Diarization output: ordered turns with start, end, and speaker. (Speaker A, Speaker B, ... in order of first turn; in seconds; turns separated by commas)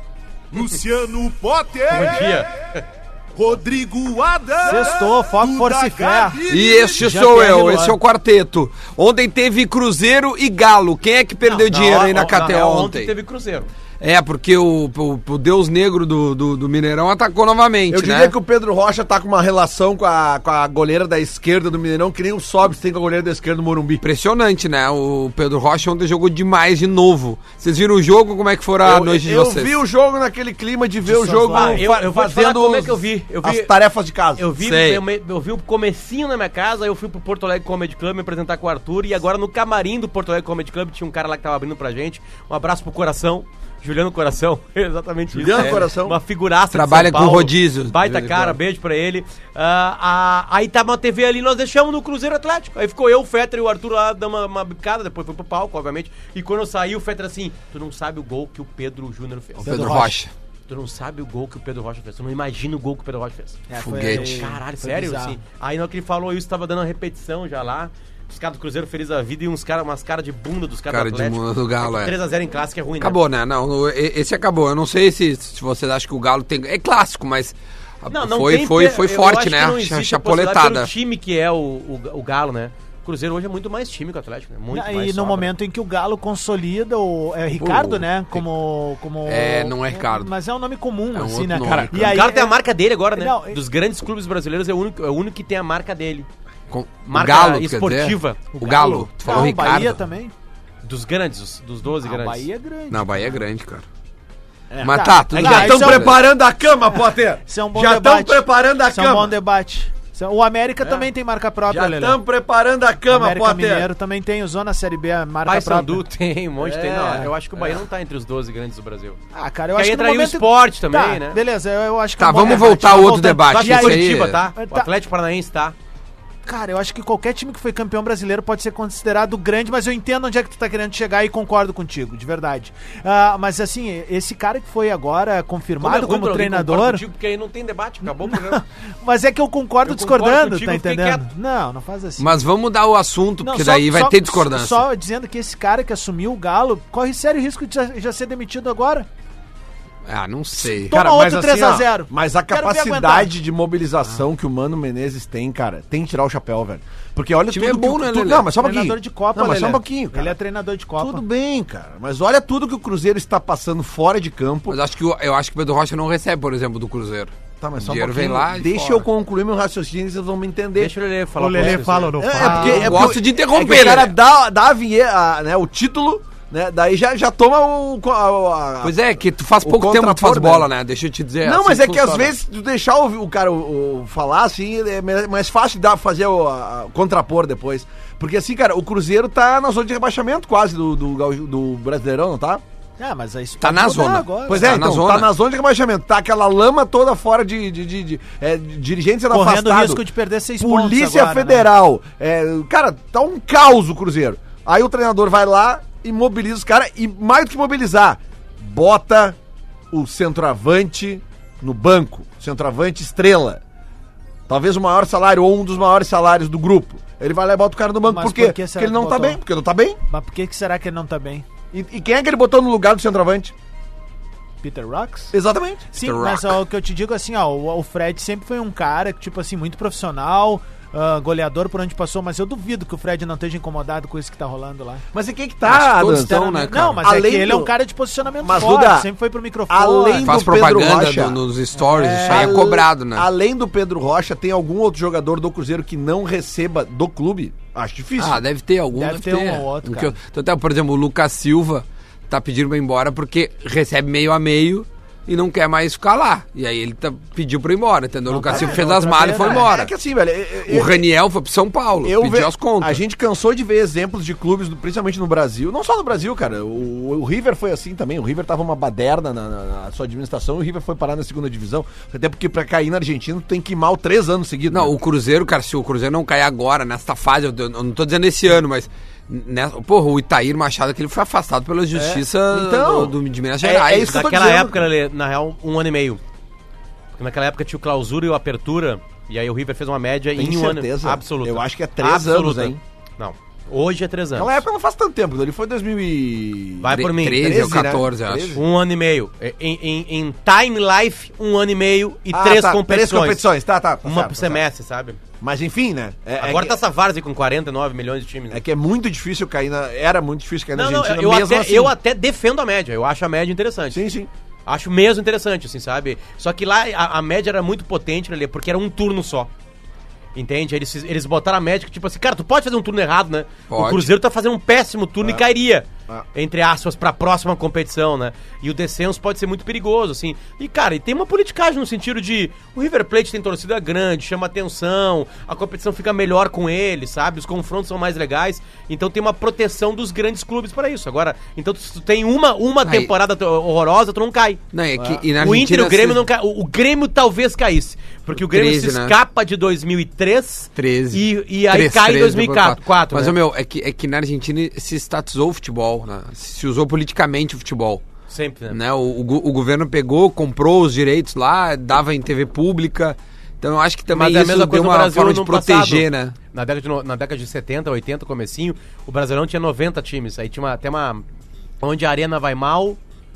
Speaker A: 0.5-0.8, Speaker B: 0.6-2.4, Speaker A: 1.9-2.8, Speaker B: 3.4-7.0, Speaker C: 4.6-8.0, Speaker D: 6.5-13.1, Speaker A: 11.4-13.7, Speaker D: 14.0-18.3, Speaker E: 17.9-24.0, Speaker D: 24.0-29.7, Speaker E: 28.8-34.5, Speaker C: 31.1-31.9, Speaker A: 31.5-33.7, Speaker A: 34.4-60.1, Speaker D: 34.6-35.0, Speaker E: 45.3-46.2, Speaker D: 45.5-45.8, Speaker D: 46.7-48.6, Speaker D: 59.6-60.3, Speaker C: 59.6-60.2, Speaker A: 60.7-73.2, Speaker C: 63.7-65.4, Speaker D: 63.8-64.5, Speaker D: 70.9-72.1, Speaker D: 73.0-80.9, Speaker A: 78.1-85.5, Speaker C: 84.7-92.6, Speaker D: 87.5-88.4, Speaker D: 89.2-90.3, Speaker D: 91.1-92.2, Speaker A: 92.0-96.3, Speaker C: 93.1-93.6, Speaker D: 96.7-100.0, Speaker A: 97.1-98.6, Speaker C: 98.5-100.3, Speaker A: 99.3-99.6, Speaker A: 100.8-102.4, Speaker C: 102.0-103.4, Speaker D: 102.9-103.8, Speaker E: 104.7-109.3, Speaker C: 104.8-106.3, Speaker D: 104.8-106.2, Speaker C: 106.9-112.2, Speaker E: 111.7-113.9, Speaker C: 113.1-116.0, Speaker A: 115.5-119.2, Speaker E: 116.6-117.3, Speaker C: 119.3-124.9, Speaker A: 119.8-121.4, Speaker D: 122.2-124.4, Speaker A: 123.5-125.7, Speaker C: 126.5-137.0, Speaker A: 135.8-138.6, Speaker C: 138.0-142.3, Speaker A: 139.8-141.2, Speaker D: 142.2-144.8, Speaker C: 143.4-149.1, Speaker D: 150.1-150.9, Speaker C: 150.6-153.3, Speaker E: 150.6-160.3, Speaker D: 157.5-158.5, Speaker C: 158.5-161.2, Speaker E: 161.0-164.8, Speaker D: 164.7-169.0, Speaker E: 167.6-170.9, Speaker A: 170.8-172.8, Speaker C: 171.4-173.1, Speaker E: 171.6-178.9, Speaker D: 172.4-174.1, Speaker D: 178.8-182.3, Speaker E: 179.6-180.7, Speaker E: 181.4-192.6, Speaker C: 193.0-194.9, Speaker D: 193.6-195.3, Speaker E: 194.5-200.0, Speaker C: 199.3-201.7, Speaker E: 200.6-209.4, Speaker E: 209.9-213.6, Speaker E: 214.5-220.0, Speaker C: 218.0-219.4, Speaker C: 220.1-221.4, Speaker E: 221.7-223.5, Speaker C: 224.6-225.3, Speaker E: 225.3-225.9, Speaker C: 225.9-235.0, Speaker D: 226.0-226.6, Speaker E: 235.1-237.7, Speaker D: 235.6-237.0, Speaker C: 236.3-240.4, Speaker E: 238.4-239.1, Speaker E: 239.7-241.4, Speaker D: 240.1-243.2, Speaker C: 241.7-242.6, Speaker E: 242.2-248.4, Speaker D: 248.2-259.9, Speaker C: 248.9-250.1, Speaker C: 258.3-259.7, Speaker E: 258.4-261.1, Speaker D: 260.7-263.0, Speaker E: 262.0-274.9, Speaker D: 274.7-284.1, Speaker E: 281.9-284.8, Speaker A: 283.9-286.2, Speaker A: 287.2-294.6, Speaker E: 290.4-292.8, Speaker E: 294.3-298.6, Speaker A: 296.8-297.9, Speaker D: 296.9-298.6, Speaker A: 298.5-303.5, Speaker E: 302.3-304.6, Speaker A: 304.0-305.2, Speaker E: 305.4-306.8, Speaker A: 306.4-308.6, Speaker E: 308.5-311.9, Speaker A: 310.8-314.0, Speaker E: 313.9-314.3, Speaker A: 314.6-319.5, Speaker A: 320.3-344.6, Speaker D: 323.7-324.1, Speaker D: 342.8-343.1, Speaker D: 344.7-346.2, Speaker E: 344.9-345.2, Speaker A: 345.4-353.4, Speaker D: 348.4-349.1, Speaker D: 350.8-358.0, Speaker A: 358.3-358.8, Speaker D: 358.7-366.3, Speaker A: 364.1-371.2, Speaker A: 371.8-373.0